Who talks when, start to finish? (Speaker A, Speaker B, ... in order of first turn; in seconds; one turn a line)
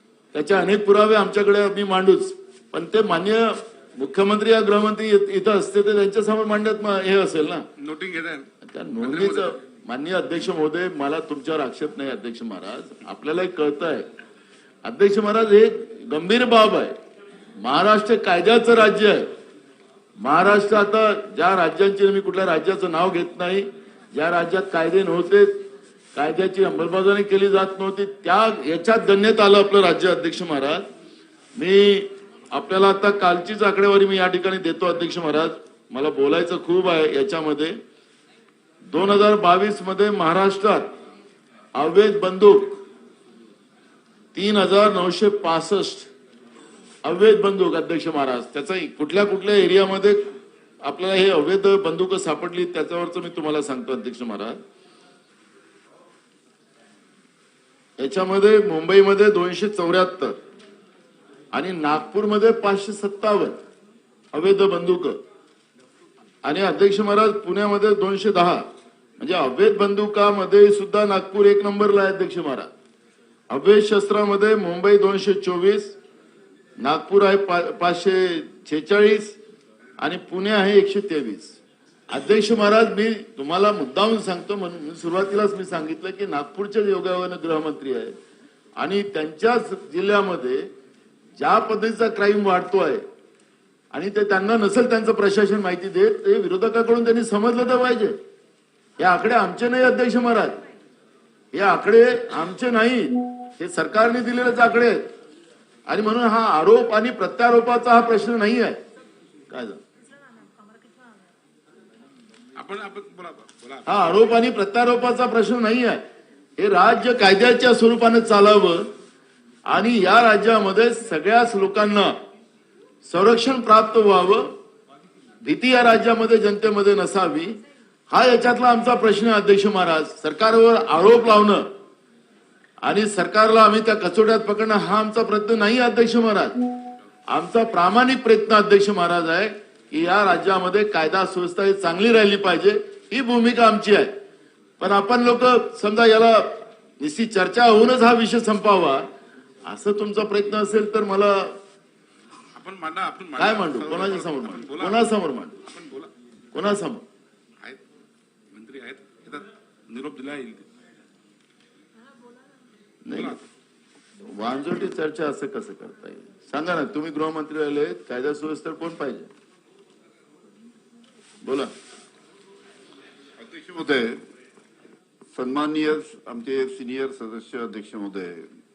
Speaker A: 0.3-7.7
Speaker B: 7.8-8.5
Speaker A: 8.7-14.1
Speaker B: 9.0-9.6
Speaker A: 14.8-16.9
Speaker A: 17.6-19.3
Speaker A: 20.2-25.5
Speaker A: 26.1-30.8
Speaker A: 31.6-37.7
Speaker A: 38.9-40.9
Speaker A: 41.8-42.8
Speaker A: 44.3-46.1
Speaker A: 47.0-50.2
Speaker A: 50.8-54.6
Speaker A: 58.0-60.4
Speaker A: 61.5-63.5
Speaker A: 64.3-65.2
Speaker A: 66.4-68.6
Speaker A: 69.2-72.7
Speaker A: 73.5-75.9
Speaker A: 76.8-79.3
Speaker A: 80.0-81.6
Speaker A: 82.1-88.1
Speaker A: 88.8-90.6
Speaker A: 91.4-93.0
Speaker A: 93.9-98.1
Speaker A: 99.0-100.6
Speaker A: 101.5-105.0
Speaker A: 105.9-108.8
Speaker A: 109.5-109.8
Speaker B: 112.5-113.9
Speaker A: 113.8-116.0
Speaker A: 116.6-118.8
Speaker A: 119.7-122.1
Speaker A: 123.0-124.5
Speaker A: 125.4-127.6
Speaker A: 128.1-131.6
Speaker A: 132.8-136.6
Speaker A: 137.3-144.1
Speaker A: 144.8-149.0
Speaker A: 149.7-151.6
Speaker B: 152.6-155.0
Speaker A: 153.4-155.6
Speaker B: 155.6-156.1
Speaker A: 156.5-157.0
Speaker B: 158.5-160.7
Speaker A: 163.0-163.4
Speaker B: 163.1-163.4
Speaker A: 164.2-169.3
Speaker A: 171.4-171.7
Speaker C: 173.4-174.2
Speaker C: 175.3-178.5